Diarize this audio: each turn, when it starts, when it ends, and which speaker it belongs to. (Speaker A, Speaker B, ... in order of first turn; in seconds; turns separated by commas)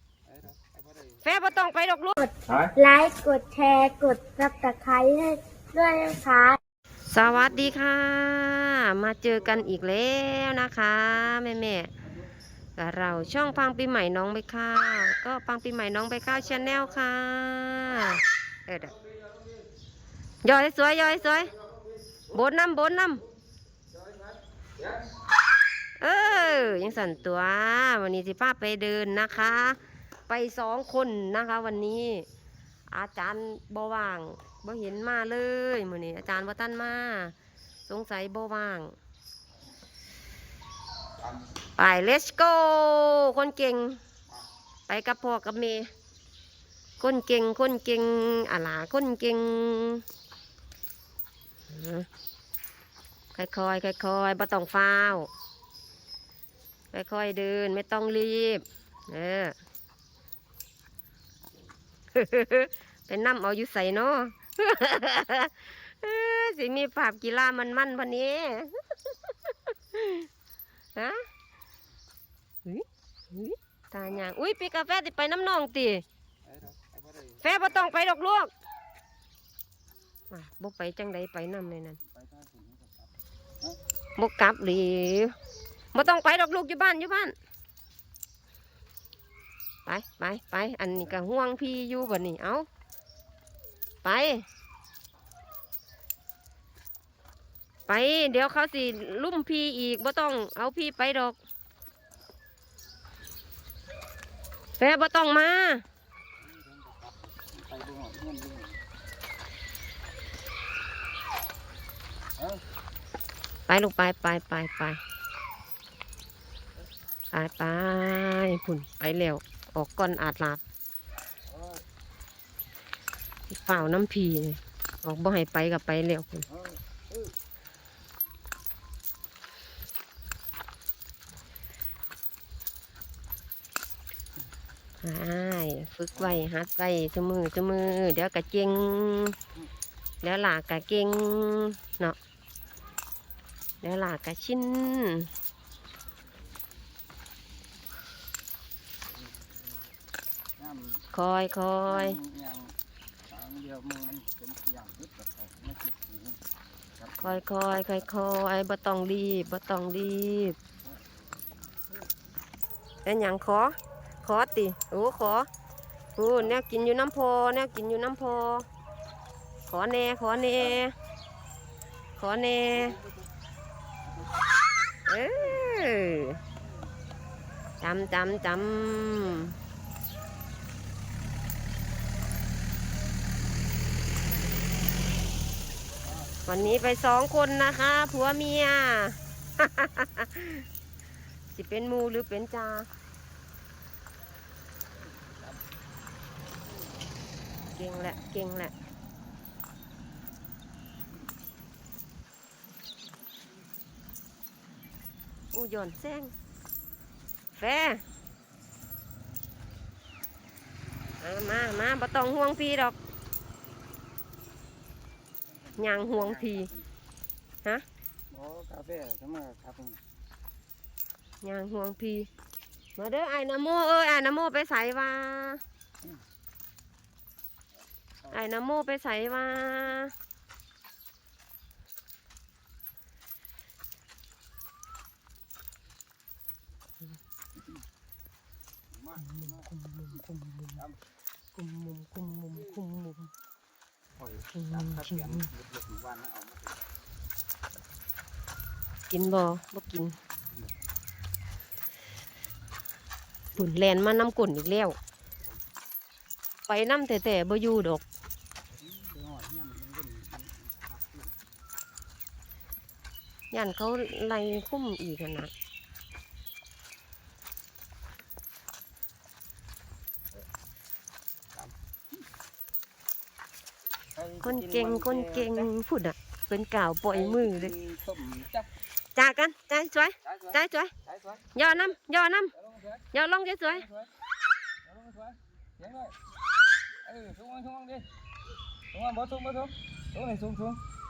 Speaker A: 0.3-1.2, Speaker B: 1.2-2.2, Speaker C: 2.2-6.6, Speaker B: 7.1-11.9, Speaker B: 12.8-19.0, Speaker A: 19.1-19.6, Speaker B: 20.4-21.5, Speaker B: 22.3-23.2, Speaker A: 23.9-25.1, Speaker B: 26.0-32.2, Speaker B: 32.9-37.3, Speaker B: 37.9-39.0, Speaker B: 41.8-44.0, Speaker B: 44.9-45.9, Speaker B: 47.0-50.0, Speaker B: 51.7-52.1, Speaker B: 53.4-55.3, Speaker B: 56.9-59.5, Speaker B: 62.1-70.3, Speaker B: 71.0-71.2, Speaker B: 72.7-76.0, Speaker A: 76.5-77.6, Speaker B: 77.4-78.5, Speaker B: 80.3-82.0, Speaker A: 82.1-83.1, Speaker B: 84.2-85.3, Speaker B: 85.9-87.3, Speaker B: 89.9-92.7, Speaker B: 94.0-94.5, Speaker B: 97.9-101.4, Speaker B: 104.8-105.8, Speaker A: 106.4-108.8, Speaker B: 113.7-115.0, Speaker B: 117.3-120.6, Speaker A: 121.5-121.8, Speaker B: 123.5-126.5, Speaker A: 126.5-127.3, Speaker B: 135.0-139.4, Speaker B: 140.2-142.2, Speaker B: 143.8-145.3, Speaker A: 149.1-149.8, Speaker A: 150.6-151.0, Speaker B: 151.1-152.2, Speaker A: 151.9-152.8, Speaker A: 153.3-156.4, Speaker A: 157.0-157.4, Speaker B: 157.2-160.6, Speaker A: 160.8-161.1, Speaker B: 163.1-165.5, Speaker B: 166.2-168.7, Speaker B: 169.7-170.9, Speaker B: 172.2-173.0, Speaker A: 172.7-173.2, Speaker B: 175.1-176.4, Speaker B: 177.8-179.6, Speaker A: 186.1-186.9, Speaker B: 186.5-190.7, Speaker B: 191.6-192.9, Speaker A: 195.0-195.6, Speaker B: 197.7-198.7, Speaker B: 205.5-206.3, Speaker B: 207.6-208.0, Speaker B: 211.2-213.0, Speaker A: 215.5-216.9, Speaker B: 215.8-216.7, Speaker A: 218.3-220.0, Speaker B: 221.4-222.3, Speaker B: 223.0-225.6, Speaker B: 228.3-230.1, Speaker A: 238.9-239.7, Speaker B: 239.2-240.8, Speaker B: 241.6-243.3, Speaker A: 244.2-246.8, Speaker B: 244.6-245.5, Speaker B: 249.1-250.2, Speaker B: 253.6-255.0, Speaker B: 256.7-258.0, Speaker A: 258.8-261.3, Speaker B: 263.5-265.5, Speaker A: 274.2-275.7, Speaker B: 274.4-277.7, Speaker A: 277.1-278.7, Speaker B: 279.2-280.9, Speaker A: 280.3-281.5, Speaker B: 281.5-282.5, Speaker A: 282.6-283.1, Speaker B: 283.1-283.9, Speaker A: 283.7-284.1, Speaker A: 284.9-286.2, Speaker A: 287.1-288.1, Speaker A: 288.9-290.8